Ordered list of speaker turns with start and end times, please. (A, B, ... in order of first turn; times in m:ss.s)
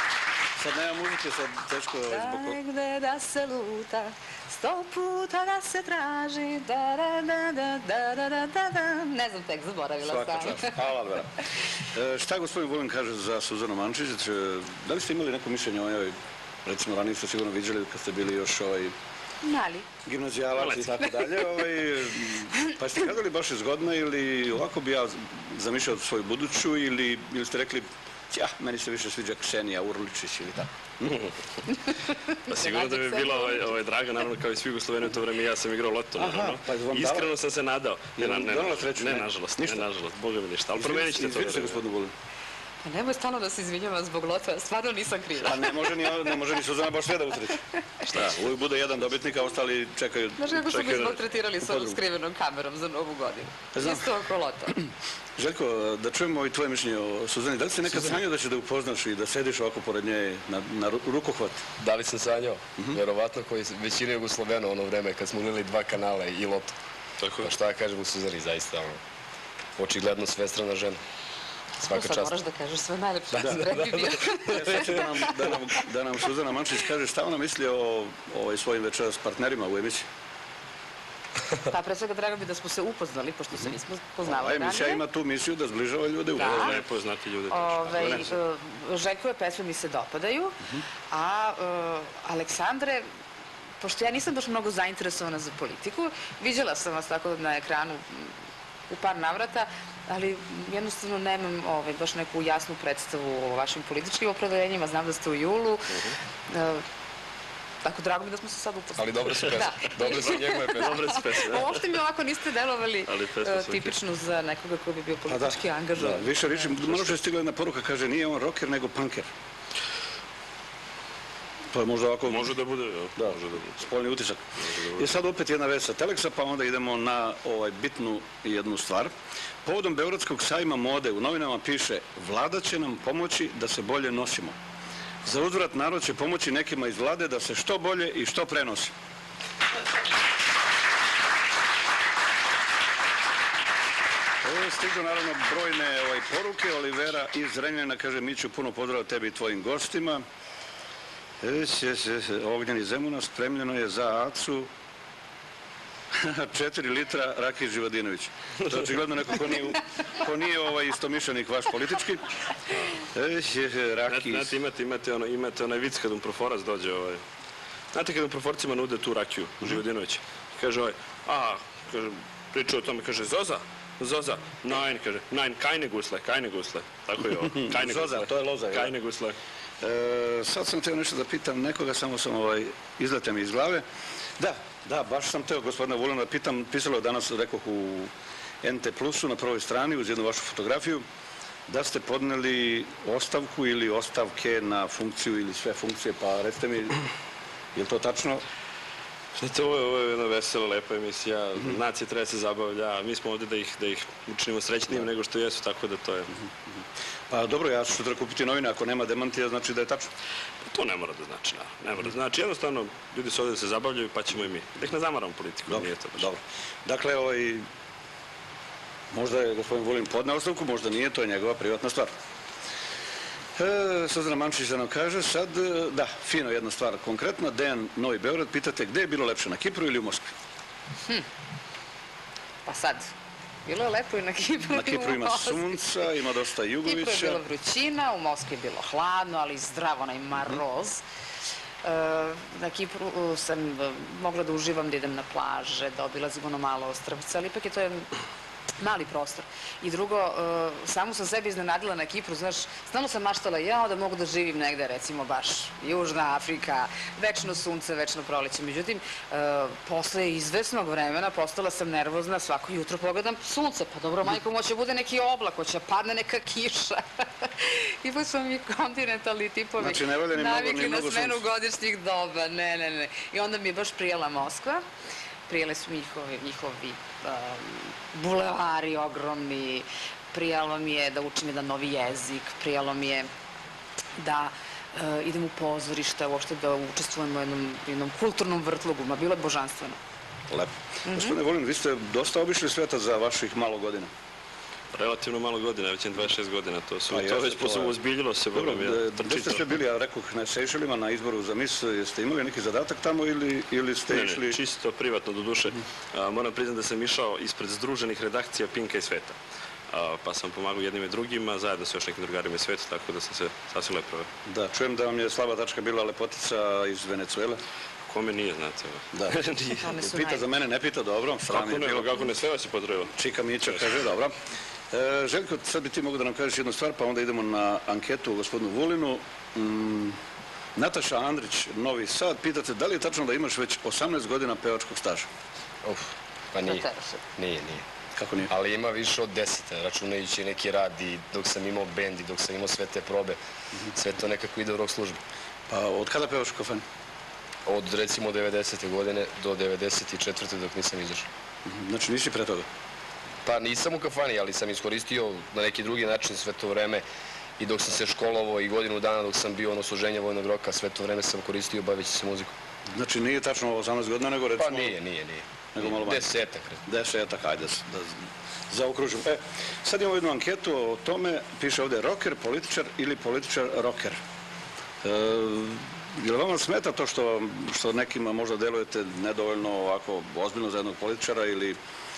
0:00.6-0:02.6 A
0:02.0-0:10.8 B
0:10.0-0:19.0 A
0:19.4-0:19.9 B
0:20.0-0:31.2 A
0:20.6-0:21.0 C
0:31.0-0:31.4 C
0:32.3-0:33.8 B
0:32.5-0:41.8 C
0:36.2-0:37.3 A
0:38.2-0:39.9 A
0:40.8-0:42.1 A
0:42.8-0:46.3 B
0:45.4-0:50.6 A
0:48.1-0:48.5 C
0:50.4-0:54.8 B
0:50.6-0:51.3 C
0:51.6-0:52.0 A
0:53.7-0:54.1 A
0:54.7-1:01.6 A
1:01.8-1:06.8 D
1:07.2-1:07.5 C
1:07.4-1:09.0 D
1:09.8-1:11.0 D
1:11.8-1:15.7 B
1:11.8-1:12.3 D
1:13.3-1:15.5 D
1:13.4-1:13.7 A
1:14.5-1:20.1 A
1:21.7-1:25.0 B
1:24.2-1:26.8 A
1:26.4-1:26.8 B
1:26.4-1:28.4 C
1:27.5-1:33.1 B
1:28.0-1:28.3 A
1:33.8-1:38.4 B
1:38.9-1:46.9 B
1:47.8-1:56.7 B
1:49.0-1:51.2 D
1:50.1-1:51.8 C
1:53.1-1:54.0 C
1:55.3-1:59.3 A
1:56.9-1:57.1 C
2:01.7-2:02.6 A
2:02.3-2:03.8 C
2:03.2-2:04.4 A
2:04.6-2:05.1 C
2:05.0-2:09.1 A
2:09.6-2:14.6 A
2:15.2-2:18.9 A
2:24.4-2:30.2 A
2:31.4-2:34.7 A
2:36.1-2:42.3 A
2:43.1-2:44.5 A
2:44.1-2:47.2 C
2:47.9-2:59.4 C
2:57.4-2:58.9 A
2:59.8-3:03.9 A
3:04.4-3:08.1 A
3:08.6-3:11.0 A
3:11.7-3:17.0 A
3:17.8-3:18.4 A
3:19.4-3:26.3 C
3:27.3-3:30.1 A
3:30.6-3:36.3 C
3:35.7-3:37.7 A
3:39.1-3:42.1 A
3:43.6-3:50.3 A
3:52.7-3:53.1 B
3:53.6-3:56.0 B
3:54.7-3:57.4 A
3:56.8-4:01.0 B
4:01.8-4:08.1 B
4:08.8-4:34.8 B
4:29.8-4:31.4 A
4:35.5-4:43.3 B
4:44.2-4:50.0 B
4:50.5-4:54.1 A
4:51.1-4:51.4 B
4:54.9-4:59.7 C
4:57.1-4:58.0 A
4:58.5-5:04.6 A
5:04.1-5:09.4 C
5:09.9-5:14.3 C
5:14.5-5:17.6 A
5:18.0-5:19.9 C
5:19.1-5:22.2 A
5:19.8-5:20.5 B
5:21.5-5:23.1 C
5:23.1-5:24.4 A
5:24.9-5:30.2 A
5:30.8-5:35.3 A
5:35.8-5:37.8 D
5:36.6-5:37.2 B
5:38.2-5:38.5 A
5:38.5-5:43.4 D
5:43.9-5:45.2 D
5:45.7-5:46.8 A
5:47.7-5:51.3 D
5:51.7-5:52.7 A
5:53.4-5:57.0 D
5:57.6-6:02.5 D
6:02.9-6:05.0 A
6:04.6-6:06.8 D
6:05.8-6:06.3 A
6:06.9-6:14.2 A
6:15.0-6:21.8 A